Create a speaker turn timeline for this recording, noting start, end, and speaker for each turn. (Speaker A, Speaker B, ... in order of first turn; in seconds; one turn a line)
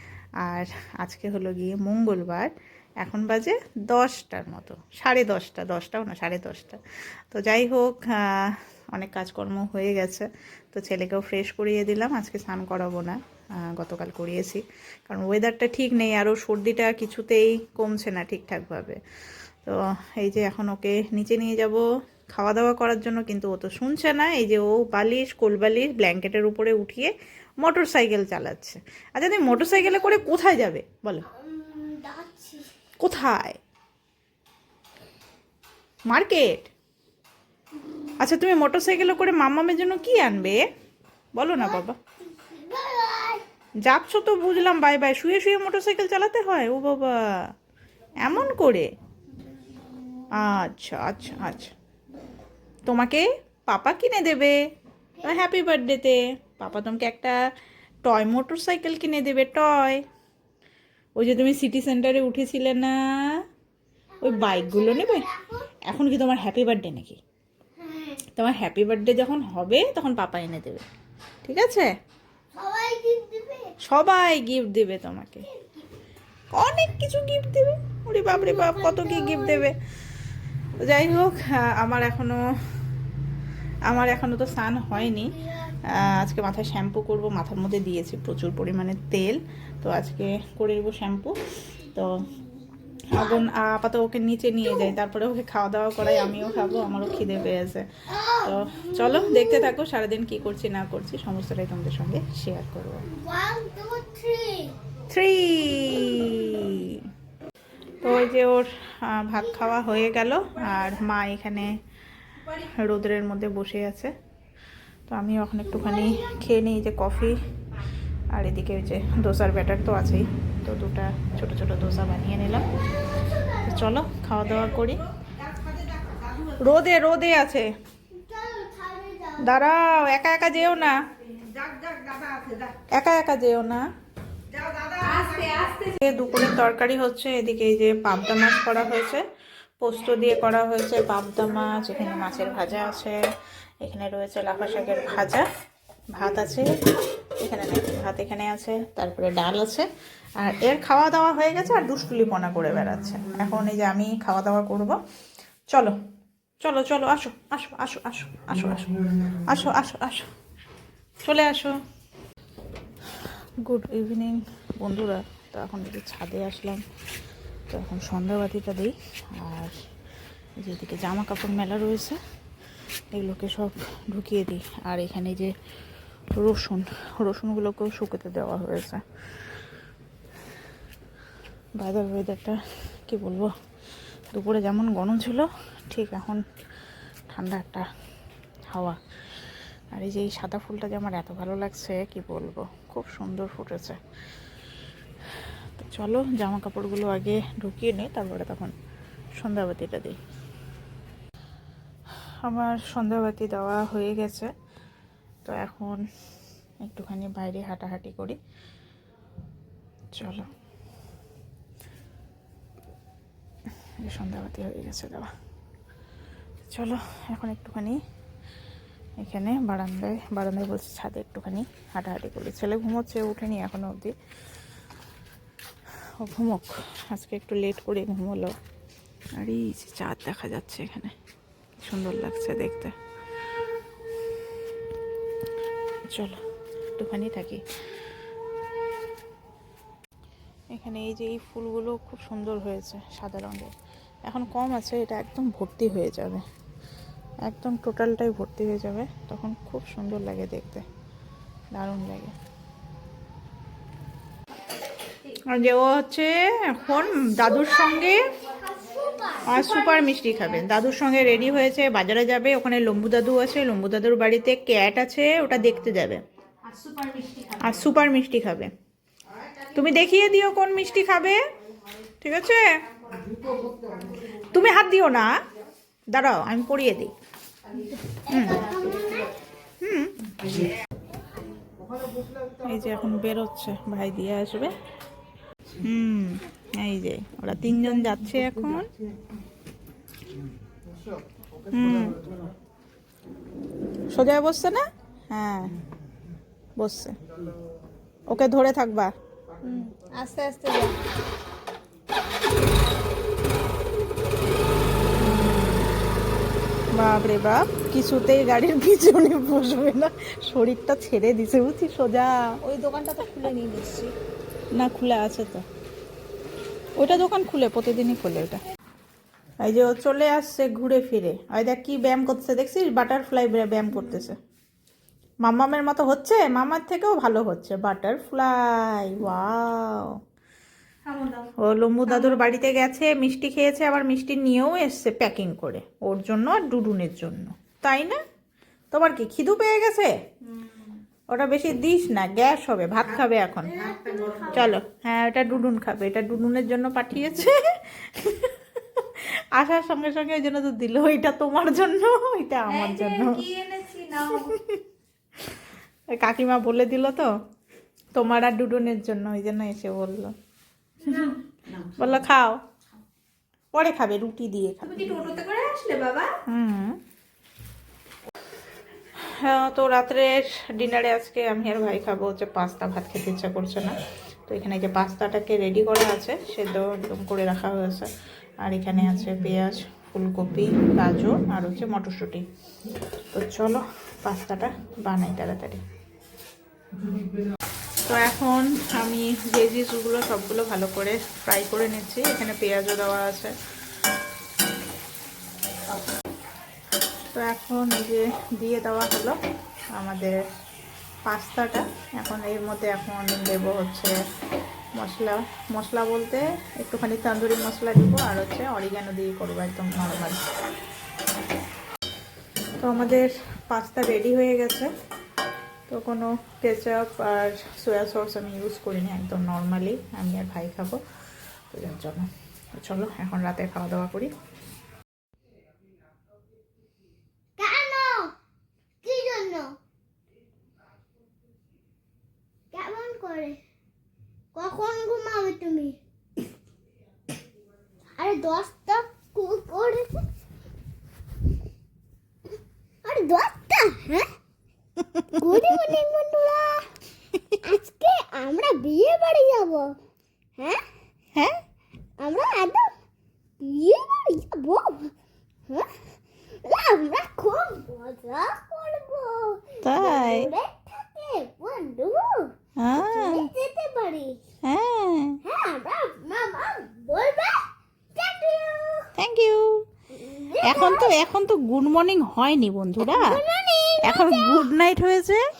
Speaker A: 0.4-19.0
Speaker A: 19.6-31.2
Speaker B: 29.6-30.2
Speaker B: 31.3-32.7
Speaker A: 33.0-33.5
Speaker A: 36.1-36.7
Speaker A: 38.2-40.6
Speaker A: 41.4-41.9
Speaker B: 41.5-43.4
Speaker A: 43.8-47.5
Speaker A: 48.2-48.9
Speaker A: 50.4-51.7
Speaker A: 52.9-54.5
Speaker B: 55.2-55.4
Speaker A: 55.2-57.4
Speaker A: 58.0-60.0
Speaker A: 61.2-63.4
Speaker B: 64.2-65.7
Speaker A: 64.2-65.2
Speaker A: 65.8-67.2
Speaker B: 67.8-68.2
Speaker A: 68.3-70.8
Speaker A: 71.4-71.9
Speaker B: 72.5-73.7
Speaker A: 73.8-75.5
Speaker B: 75.4-75.9
Speaker A: 76.5-79.8
Speaker B: 78.3-79.7
Speaker A: 80.8-82.4
Speaker A: 83.9-92.1
Speaker B: 85.2-85.9
Speaker B: 93.0-93.3
Speaker A: 93.1-97.8
Speaker B: 98.1-99.7
Speaker A: 98.4-103.0
Speaker B: 103.1-104.8
Speaker A: 105.1-107.1
Speaker A: 108.0-111.7
Speaker A: 112.4-114.1
Speaker A: 115.1-117.4
Speaker B: 115.7-116.3
Speaker A: 118.3-122.7
Speaker B: 122.9-123.9
Speaker A: 123.6-125.0
Speaker A: 126.4-127.7
Speaker B: 128.1-129.5
Speaker A: 129.4-130.9
Speaker A: 132.9-133.8
Speaker C: 134.9-135.7
Speaker A: 135.5-139.2
Speaker A: 139.8-143.2
Speaker A: 143.8-145.4
Speaker A: 146.1-146.7
Speaker A: 147.4-149.9
Speaker A: 150.4-155.0
Speaker A: 156.6-160.3
Speaker A: 161.2-161.7
Speaker A: 163.6-166.8
Speaker A: 167.7-169.7
Speaker A: 170.6-172.2
Speaker A: 173.1-175.5
Speaker A: 176.3-179.0
Speaker A: 181.8-183.5
Speaker A: 184.3-186.4
Speaker A: 187.3-187.8
Speaker A: 188.7-189.0
Speaker A: 189.9-194.0
Speaker A: 195.8-198.7
Speaker A: 199.4-200.2
Speaker A: 202.4-204.5
Speaker A: 205.4-206.0
Speaker A: 206.8-208.4
Speaker A: 210.1-210.5
Speaker A: 214.0-215.3
Speaker A: 216.7-218.0
Speaker A: 219.2-224.1
Speaker A: 226.2-228.5
Speaker A: 229.4-231.1
Speaker A: 231.8-232.9
Speaker A: 236.1-236.4
Speaker A: 237.0-237.6
Speaker A: 240.7-243.7
Speaker A: 244.3-246.4
Speaker A: 247.5-250.8
Speaker A: 251.7-252.3
Speaker A: 255.3-258.2
Speaker B: 257.2-260.3
Speaker A: 259.4-266.2
Speaker C: 266.7-267.6
Speaker A: 267.6-268.7
Speaker A: 269.7-271.4
Speaker A: 272.2-272.7
Speaker A: 274.4-275.3
Speaker A: 276.1-277.1
Speaker B: 278.1-279.3
Speaker A: 278.3-278.6
Speaker A: 279.8-280.1
Speaker A: 282.6-284.7
Speaker A: 285.8-288.9
Speaker A: 291.7-292.2
Speaker A: 294.1-295.8
Speaker A: 296.8-297.1
Speaker A: 298.3-299.1
Speaker C: 299.6-300.9
Speaker A: 305.2-305.9
Speaker A: 307.0-314.1
Speaker A: 314.8-315.6
Speaker A: 317.0-318.6
Speaker A: 319.6-324.4
Speaker A: 325.4-330.1
Speaker C: 331.1-331.4
Speaker A: 331.5-338.2
Speaker C: 332.1-332.4
Speaker A: 338.9-340.1
Speaker A: 341.3-343.8
Speaker B: 343.7-344.6
Speaker A: 344.4-353.5
Speaker C: 352.8-354.5
Speaker A: 354.1-354.8
Speaker A: 356.1-357.3
Speaker A: 358.1-360.3
Speaker C: 361.0-361.3
Speaker A: 361.1-362.6
Speaker A: 363.7-365.4
Speaker C: 364.9-366.4
Speaker A: 366.5-367.0
Speaker A: 369.2-373.9
Speaker A: 374.5-378.1
Speaker A: 378.6-382.4
Speaker A: 383.3-385.8
Speaker A: 388.1-393.5
Speaker A: 397.3-399.4
Speaker A: 400.0-400.4
Speaker A: 401.3-404.1
Speaker A: 405.0-410.4
Speaker A: 412.8-414.9
Speaker A: 415.9-421.0
Speaker A: 421.7-424.3
Speaker B: 427.6-428.3
Speaker B: 429.0-429.7
Speaker B: 432.7-433.6
Speaker B: 434.5-436.0
Speaker B: 438.2-440.3
Speaker B: 443.0-444.2
Speaker B: 445.3-446.9
Speaker B: 447.6-449.9
Speaker B: 450.6-450.8
Speaker B: 452.2-452.9
Speaker B: 453.6-455.1
Speaker B: 456.6-464.4
Speaker A: 459.8-460.5
Speaker A: 462.8-463.4
Speaker A: 464.6-465.4
Speaker B: 465.4-469.1
Speaker A: 469.2-469.7
Speaker B: 470.1-471.2
Speaker A: 470.7-473.4
Speaker B: 473.1-474.7
Speaker A: 474.0-475.4